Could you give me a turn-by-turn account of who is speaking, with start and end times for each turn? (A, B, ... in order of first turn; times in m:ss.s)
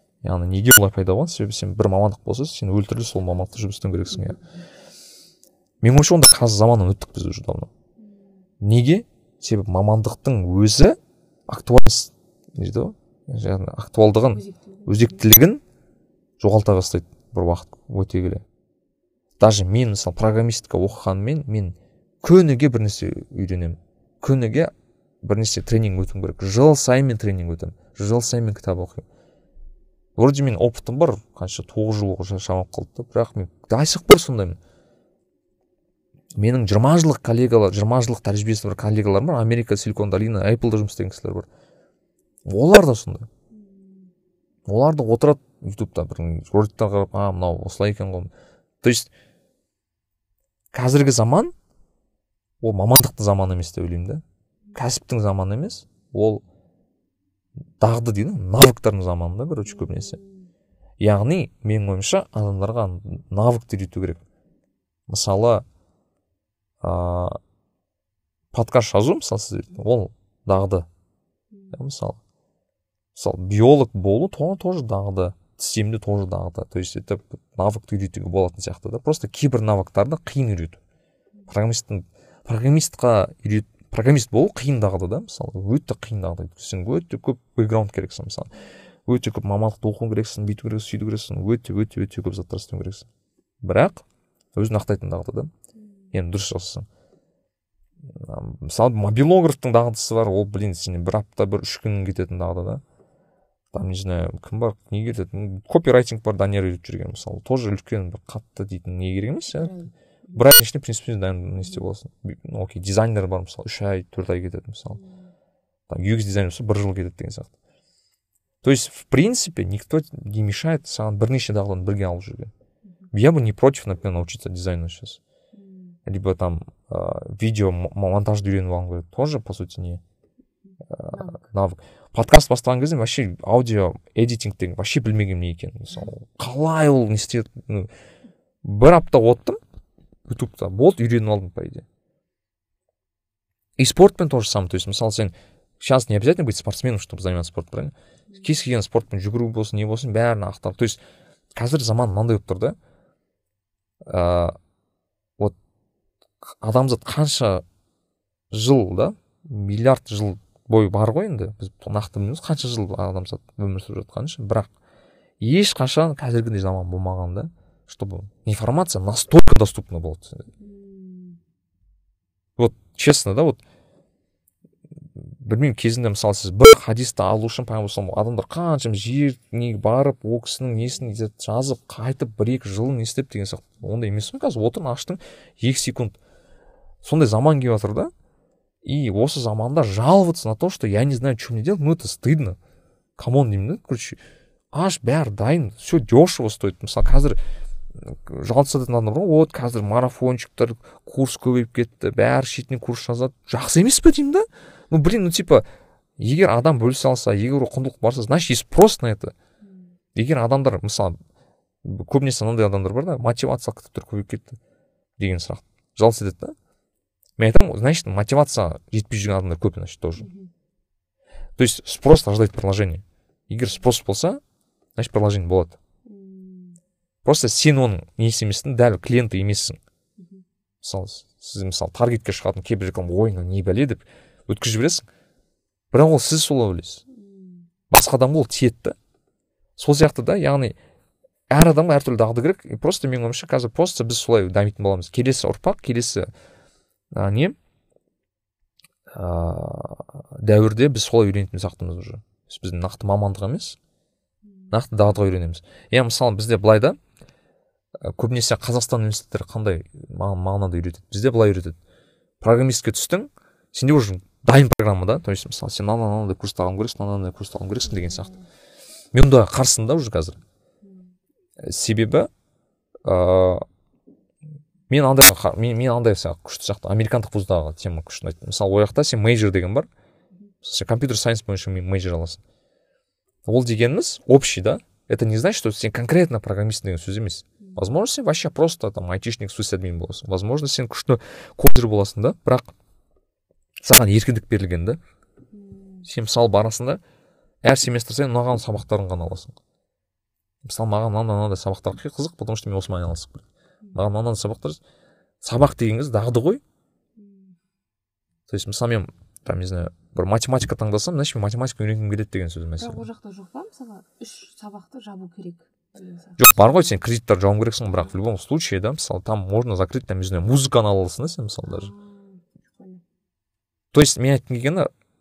0:00.2-0:04.4 A
0:04.1-0:04.4 B
0:05.8-0:07.7 A
0:08.0-0:08.4 B
0:08.6-0:11.0 A
0:11.5-0:15.6 A
0:14.2-0:15.2 B
0:16.4-0:18.4 A
0:19.4-0:24.7 A
0:25.2-0:29.1 A
0:30.2-0:34.6 A
0:36.4-0:41.5 A
0:42.5-0:43.3 A
0:43.5-0:44.1 B
0:44.7-0:48.3 A
0:48.8-0:49.1 A
0:50.7-0:51.5 A
0:52.6-0:54.2 A
0:54.8-0:56.4 A
0:57.8-1:00.2 A
0:59.7-1:00.5 B
1:01.0-1:04.2 A
1:05.1-1:05.7 A
1:06.8-1:07.4 A
1:08.5-1:10.9 A
1:11.5-1:11.8 B
1:11.7-1:12.2 A
1:13.2-1:20.8 A
1:21.5-1:28.5 A
1:29.1-1:33.1 A
1:33.6-1:34.0 A
1:34.6-1:35.5 A
1:35.8-1:36.0 B
1:36.1-1:36.9 A
1:38.1-1:42.8 A
1:43.7-1:49.8 A
1:49.6-1:50.5 B
1:50.4-1:55.0 A
1:54.9-1:55.3 B
1:55.9-1:57.5 A
1:58.6-2:02.5 A
2:03.1-2:05.2 A
2:05.5-2:06.0 B
2:06.1-2:10.0 A
2:10.6-2:11.4 B
2:10.9-2:17.9 A
2:18.6-2:19.6 A
2:20.3-2:21.8 A
2:23.8-2:31.0 A
2:31.6-2:32.8 A
2:34.0-2:34.6 A
2:36.5-2:37.6 A
2:38.5-2:44.7 A
2:45.4-2:50.5 A
2:50.6-2:51.4 B
2:52.6-2:53.6 A
2:55.4-3:06.2 A
3:00.8-3:01.1 B
3:07.0-3:08.1 A
3:08.8-3:12.6 A
3:13.2-3:14.2 A
3:14.7-3:17.4 A
3:18.0-3:25.7 A
3:26.2-3:29.4 A
3:29.6-3:29.9 B
3:30.2-3:31.2 A
3:31.8-3:34.6 A
3:35.2-3:36.6 A
3:37.4-3:40.3 A
3:40.2-3:40.5 B
3:41.6-3:44.4 A
3:45.0-3:45.8 A
3:46.1-3:46.8 B
3:47.2-3:49.8 A
3:50.2-3:50.4 B
3:50.8-3:55.1 A
3:55.9-3:57.0 A
3:57.1-3:57.7 B
3:57.9-3:59.0 A
3:59.8-4:00.8 A
4:01.5-4:06.3 A
4:07.1-4:07.6 A
4:09.1-4:13.8 A
4:14.4-4:14.8 B
4:14.7-4:17.0 A
4:18.0-4:21.8 A
4:22.4-4:28.3 A
4:27.8-4:28.4 B
4:29.1-4:30.4 A
4:30.8-4:31.1 B
4:31.6-4:32.3 A
4:33.0-4:33.6 A
4:34.9-4:39.9 A
4:40.6-4:42.4 A
4:43.5-4:52.7 A
4:47.6-4:47.9 B
4:53.8-4:55.0 A
4:55.5-4:56.1 B
4:56.1-4:57.0 A
4:57.6-4:59.6 A
5:00.6-5:03.4 A
5:04.0-5:04.8 A
5:05.4-5:06.6 A
5:07.2-5:07.6 B
5:08.5-5:13.0 A
5:12.8-5:17.0 B
5:16.4-5:21.9 A
5:21.7-5:23.0 B
5:23.9-5:24.9 A